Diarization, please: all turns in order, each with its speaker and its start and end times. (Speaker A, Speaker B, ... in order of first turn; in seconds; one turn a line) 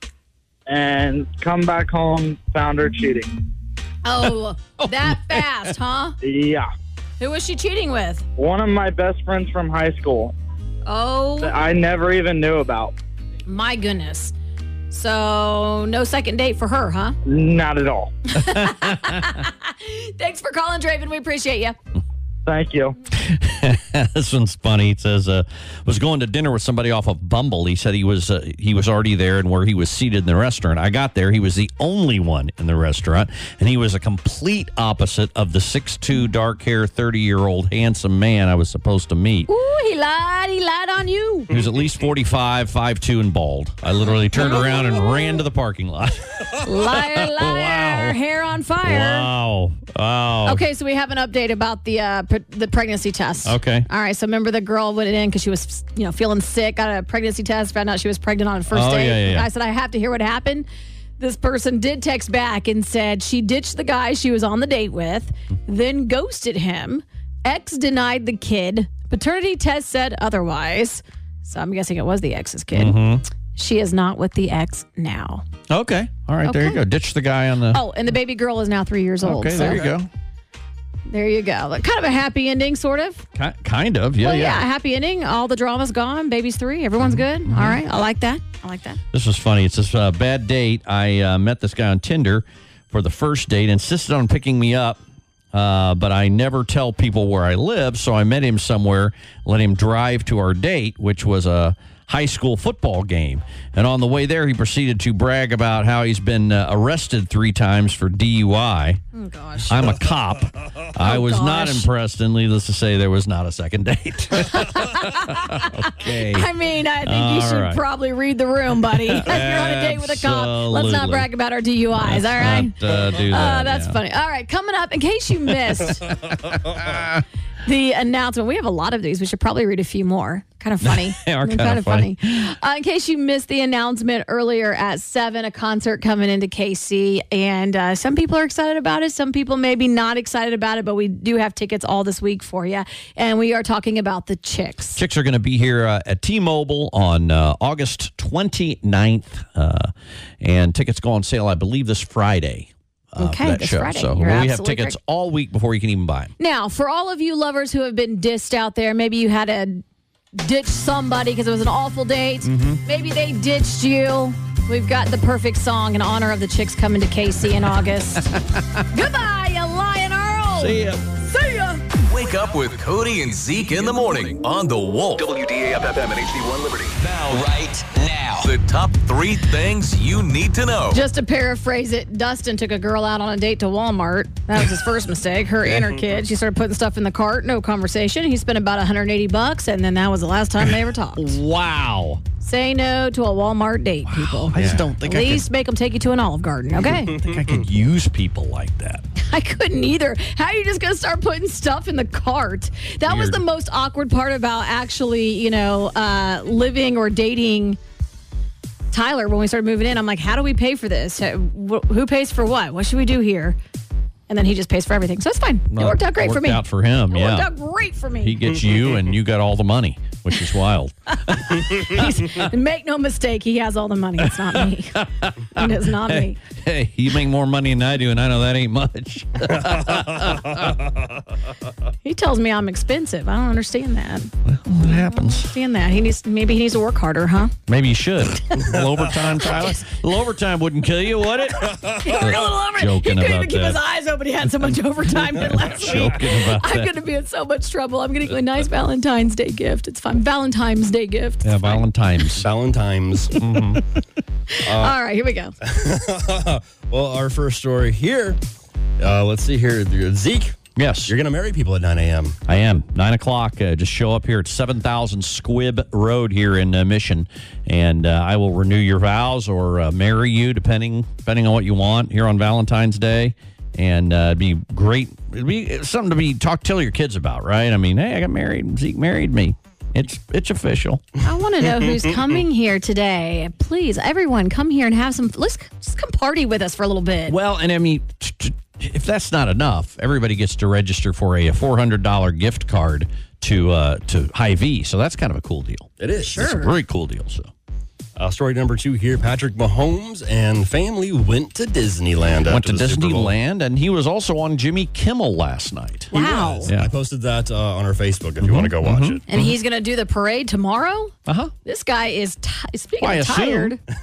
Speaker A: 0.7-3.4
Speaker B: 4.0-6.2
Speaker C: 4.8-5.4
Speaker A: 6.2-6.7
Speaker B: 7.2-8.2
Speaker A: 8.4-10.3
Speaker B: 10.8-11.6
Speaker A: 11.4-12.9
Speaker B: 13.5-14.3
Speaker B: 14.9-17.1
Speaker A: 17.2-18.1
Speaker B: 18.3-21.8
Speaker C: 18.4-19.4
Speaker A: 22.4-23.0
Speaker C: 23.1-39.5
Speaker B: 39.5-41.5
Speaker C: 41.5-48.2
Speaker B: 44.0-45.4
Speaker B: 46.6-49.3
Speaker C: 48.8-50.6
Speaker B: 50.4-60.7
Speaker C: 53.4-53.9
Speaker C: 58.7-59.5
Speaker B: 61.2-75.4
Speaker C: 72.7-73.2
Speaker C: 75.7-77.8
Speaker B: 76.4-76.8
Speaker B: 77.7-79.9
Speaker C: 79.2-80.1
Speaker B: 81.1-83.2
Speaker C: 83.3-84.7
Speaker B: 84.2-89.0
Speaker C: 87.0-87.8
Speaker C: 89.1-95.0
Speaker C: 95.5-109.0
Speaker B: 109.1-109.9
Speaker C: 109.7-116.5
Speaker B: 111.0-111.9
Speaker B: 114.5-126.1
Speaker C: 117.0-117.8
Speaker C: 118.9-121.3
Speaker C: 121.9-124.0
Speaker C: 126.7-127.2
Speaker B: 127.6-145.0
Speaker C: 130.8-132.5
Speaker C: 144.9-156.3
Speaker B: 153.2-155.0
Speaker B: 156.4-159.8
Speaker B: 160.3-168.4
Speaker C: 162.4-162.8
Speaker C: 168.3-168.8
Speaker B: 168.9-171.8
Speaker C: 170.5-171.1
Speaker D: 172.0-181.0
Speaker B: 180.9-191.4
Speaker C: 190.6-192.2
Speaker B: 192.4-197.2
Speaker C: 194.0-195.5
Speaker E: 194.5-194.9
Speaker C: 197.0-199.0
Speaker E: 197.3-197.6
Speaker B: 199.2-207.8
Speaker C: 203.0-203.4
Speaker B: 208.9-213.6
Speaker B: 214.3-218.4
Speaker C: 215.7-217.5
Speaker C: 218.2-222.4
Speaker B: 221.2-226.4
Speaker C: 224.2-230.8
Speaker B: 232.0-234.3
Speaker C: 234.4-235.5
Speaker B: 235.1-237.5
Speaker C: 237.7-243.8
Speaker B: 239.4-239.8
Speaker B: 241.8-251.8
Speaker C: 244.6-246.9
Speaker C: 251.4-252.5
Speaker E: 252.3-253.8
Speaker C: 253.4-253.8
Speaker B: 254.5-255.5
Speaker E: 254.6-254.9
Speaker E: 255.6-258.4
Speaker E: 259.0-262.4
Speaker C: 260.8-261.1
Speaker C: 262.5-281.1
Speaker B: 281.2-287.4
Speaker C: 287.3-297.5
Speaker E: 296.0-296.4
Speaker B: 296.3-296.7
Speaker E: 298.2-303.3
Speaker C: 302.5-306.1
Speaker B: 306.1-306.7
Speaker E: 306.1-309.2
Speaker C: 306.6-306.9
Speaker C: 308.4-309.5
Speaker B: 309.3-313.8
Speaker C: 311.3-311.5
Speaker C: 313.0-313.8